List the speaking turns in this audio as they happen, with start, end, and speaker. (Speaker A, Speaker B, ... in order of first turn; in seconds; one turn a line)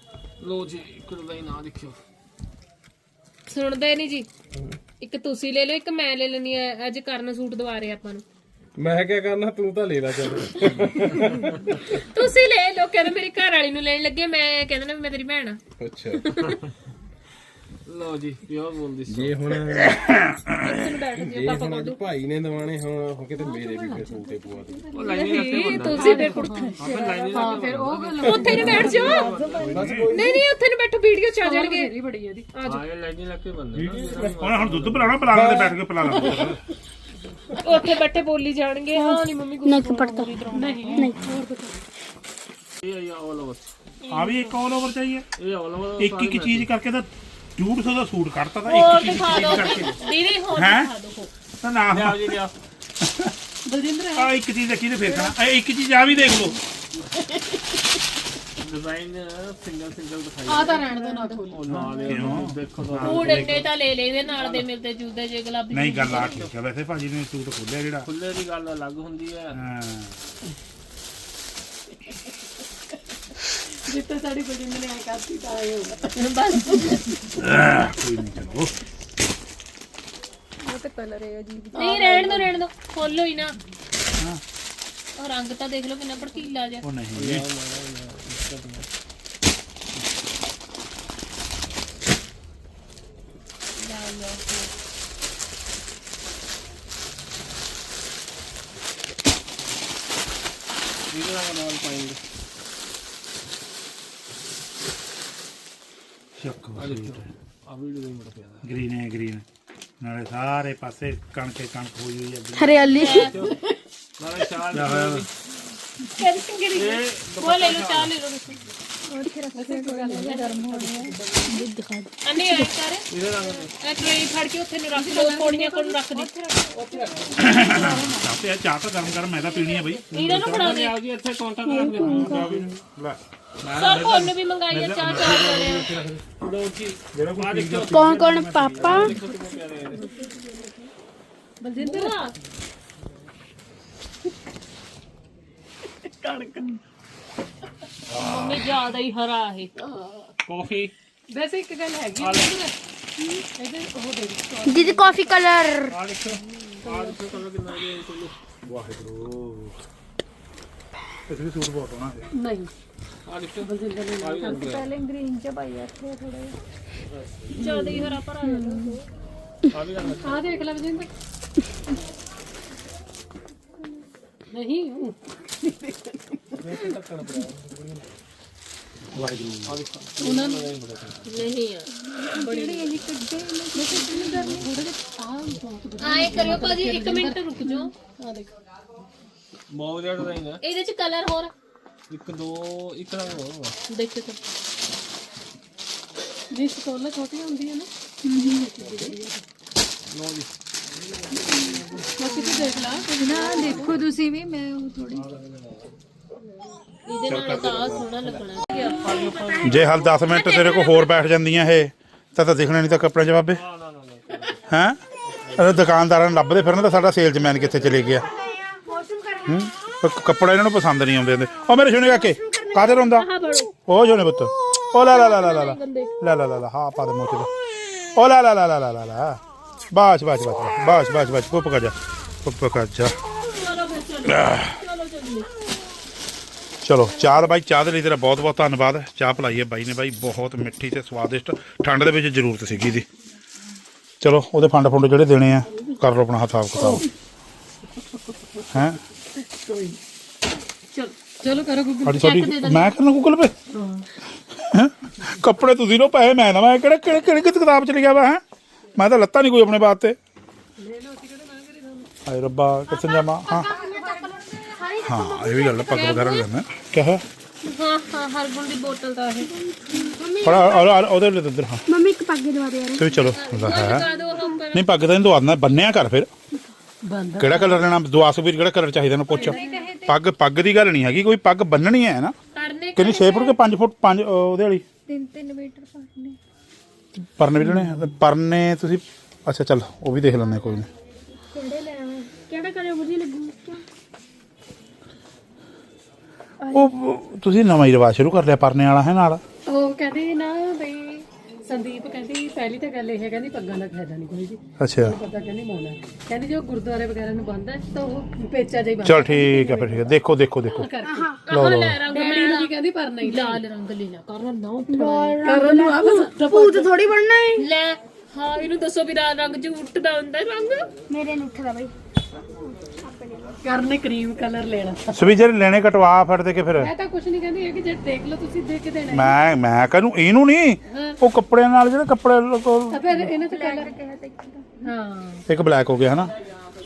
Speaker A: 0.4-2.0
Speaker B: 3.5-4.3
Speaker B: 5.0-8.2
Speaker C: 8.8-11.5
Speaker B: 11.9-15.6
Speaker C: 15.8-16.3
Speaker B: 16.1-16.6
Speaker A: 17.9-19.5
Speaker C: 19.1-20.0
Speaker B: 20.5-22.0
Speaker C: 21.2-24.9
Speaker D: 23.4-29.9
Speaker E: 23.7-24.2
Speaker A: 24.9-30.1
Speaker B: 25.2-26.8
Speaker E: 27.1-27.6
Speaker B: 28.2-29.3
Speaker C: 28.4-28.9
Speaker C: 29.6-30.4
Speaker F: 29.6-30.1
Speaker B: 30.1-31.9
Speaker D: 31.4-32.5
Speaker B: 32.5-32.8
Speaker A: 32.6-35.5
Speaker C: 33.8-34.4
Speaker F: 34.0-36.6
Speaker C: 35.3-35.8
Speaker D: 36.0-36.5
Speaker D: 37.5-37.8
Speaker B: 37.6-41.1
Speaker D: 39.0-39.2
Speaker G: 39.6-40.3
Speaker D: 40.5-41.8
Speaker A: 42.8-43.7
Speaker F: 44.1-45.2
Speaker A: 45.4-46.7
Speaker F: 46.0-50.0
Speaker B: 48.6-51.3
Speaker A: 49.3-49.9
Speaker F: 50.5-50.9
Speaker F: 51.6-52.4
Speaker A: 51.9-52.5
Speaker F: 53.0-53.3
Speaker D: 53.6-54.3
Speaker F: 54.1-56.6
Speaker D: 55.0-55.3
Speaker A: 58.6-63.7
Speaker D: 60.5-62.4
Speaker F: 62.1-63.6
Speaker B: 63.0-66.4
Speaker A: 64.3-64.7
Speaker F: 65.7-68.1
Speaker A: 66.0-66.5
Speaker A: 68.0-69.6
Speaker F: 69.5-70.2
Speaker D: 73.9-76.2
Speaker B: 76.2-77.2
Speaker F: 77.4-78.7
Speaker E: 80.6-82.4
Speaker D: 81.7-82.5
Speaker B: 81.8-83.5
Speaker B: 85.2-86.8
Speaker F: 86.8-87.5
Speaker A: 87.1-88.9
Speaker B: 93.8-94.7
Speaker A: 101.1-102.2
Speaker F: 106.4-107.3
Speaker A: 106.8-108.7
Speaker F: 108.6-109.4
Speaker F: 110.0-112.9
Speaker G: 112.5-113.3
Speaker B: 112.9-113.3
Speaker A: 113.1-113.6
Speaker A: 114.2-115.3
Speaker F: 114.7-115.2
Speaker B: 116.2-118.6
Speaker A: 116.7-118.1
Speaker E: 119.1-121.2
Speaker D: 119.5-121.7
Speaker G: 121.5-122.7
Speaker B: 122.2-123.0
Speaker A: 123.1-123.7
Speaker B: 123.8-126.3
Speaker D: 124.9-128.3
Speaker F: 127.4-130.8
Speaker D: 129.5-130.0
Speaker B: 130.1-131.0
Speaker A: 130.2-132.7
Speaker G: 131.7-132.5
Speaker F: 132.0-136.3
Speaker B: 133.8-135.9
Speaker A: 136.4-140.1
Speaker F: 137.1-139.2
Speaker G: 137.9-139.2
Speaker B: 139.0-139.2
Speaker D: 141.6-142.3
Speaker B: 141.8-142.3
Speaker D: 146.1-146.8
Speaker F: 148.1-148.7
Speaker B: 148.2-149.7
Speaker D: 149.8-150.3
Speaker A: 150.4-150.9
Speaker D: 151.3-152.7
Speaker A: 152.2-152.5
Speaker D: 153.5-155.3
Speaker G: 154.6-155.9
Speaker A: 155.9-158.3
Speaker D: 156.9-157.2
Speaker F: 158.7-159.8
Speaker F: 161.3-162.3
Speaker D: 162.3-162.7
Speaker A: 163.2-164.9
Speaker D: 163.6-164.7
Speaker E: 164.4-166.5
Speaker A: 167.1-167.7
Speaker B: 167.5-169.0
Speaker D: 167.7-168.1
Speaker E: 168.6-168.9
Speaker A: 169.7-170.8
Speaker D: 170.1-171.1
Speaker D: 174.5-175.2
Speaker A: 176.6-178.0
Speaker F: 179.1-179.8
Speaker A: 179.7-181.5
Speaker D: 180.2-180.7
Speaker B: 181.2-183.0
Speaker E: 181.9-184.7
Speaker D: 183.7-188.5
Speaker B: 186.0-187.9
Speaker A: 189.7-190.6
Speaker B: 190.6-191.5
Speaker A: 192.1-193.8
Speaker B: 193.9-194.4
Speaker D: 196.5-199.4
Speaker E: 198.2-198.7
Speaker B: 198.6-199.1
Speaker A: 200.1-200.5
Speaker E: 201.5-201.8
Speaker D: 202.0-204.1
Speaker E: 203.1-205.2
Speaker A: 203.6-203.9
Speaker A: 205.1-205.9
Speaker B: 207.1-211.1
Speaker F: 207.3-208.1
Speaker A: 208.9-209.9
Speaker F: 209.6-213.6
Speaker A: 213.5-214.6
Speaker F: 214.7-215.0
Speaker A: 215.2-215.9
Speaker F: 215.6-218.3
Speaker G: 218.3-219.6
Speaker F: 219.4-223.3
Speaker G: 222.1-222.9
Speaker B: 222.8-223.7
Speaker F: 223.8-227.5
Speaker B: 225.1-226.1
Speaker F: 228.2-229.4
Speaker F: 229.9-233.2
Speaker B: 233.4-235.5
Speaker F: 234.3-234.7
Speaker F: 236.8-243.1
Speaker F: 244.2-247.0
Speaker D: 246.7-247.1
Speaker F: 248.7-249.0
Speaker D: 249.4-250.0
Speaker D: 251.4-252.4
Speaker F: 252.0-253.6
Speaker B: 252.2-252.9
Speaker D: 253.7-254.0
Speaker F: 254.5-258.4
Speaker F: 258.9-260.2
Speaker D: 260.8-262.1
Speaker F: 262.2-263.7
Speaker D: 262.9-266.3
Speaker E: 263.6-264.2
Speaker F: 265.0-267.2
Speaker G: 265.1-265.7
Speaker B: 265.9-266.4
Speaker B: 267.6-269.5
Speaker G: 269.5-270.9
Speaker F: 270.4-271.8
Speaker G: 271.9-273.9
Speaker F: 272.9-274.0
Speaker B: 273.3-274.9
Speaker F: 274.7-276.3
Speaker D: 277.1-277.9
Speaker F: 277.4-282.3
Speaker D: 279.3-280.1
Speaker E: 279.4-280.0
Speaker B: 282.5-283.6
Speaker F: 282.9-284.8
Speaker E: 285.1-286.4
Speaker F: 287.2-290.9
Speaker G: 291.5-293.8
Speaker F: 296.7-299.4
Speaker D: 299.7-310.1
Speaker F: 304.8-305.2
Speaker F: 309.0-310.9
Speaker D: 310.6-311.3
Speaker G: 311.0-311.4
Speaker B: 311.4-315.4
Speaker F: 311.5-312.0
Speaker D: 312.1-313.6
Speaker G: 314.9-317.6
Speaker D: 315.4-316.9
Speaker B: 317.6-320.9
Speaker G: 321.1-321.9
Speaker G: 322.9-323.5
Speaker D: 323.6-325.1
Speaker F: 325.1-326.9
Speaker D: 326.8-329.4
Speaker F: 329.1-333.0
Speaker D: 330.9-331.2
Speaker D: 332.9-333.9
Speaker E: 333.2-334.6
Speaker D: 334.9-335.4
Speaker F: 335.5-336.3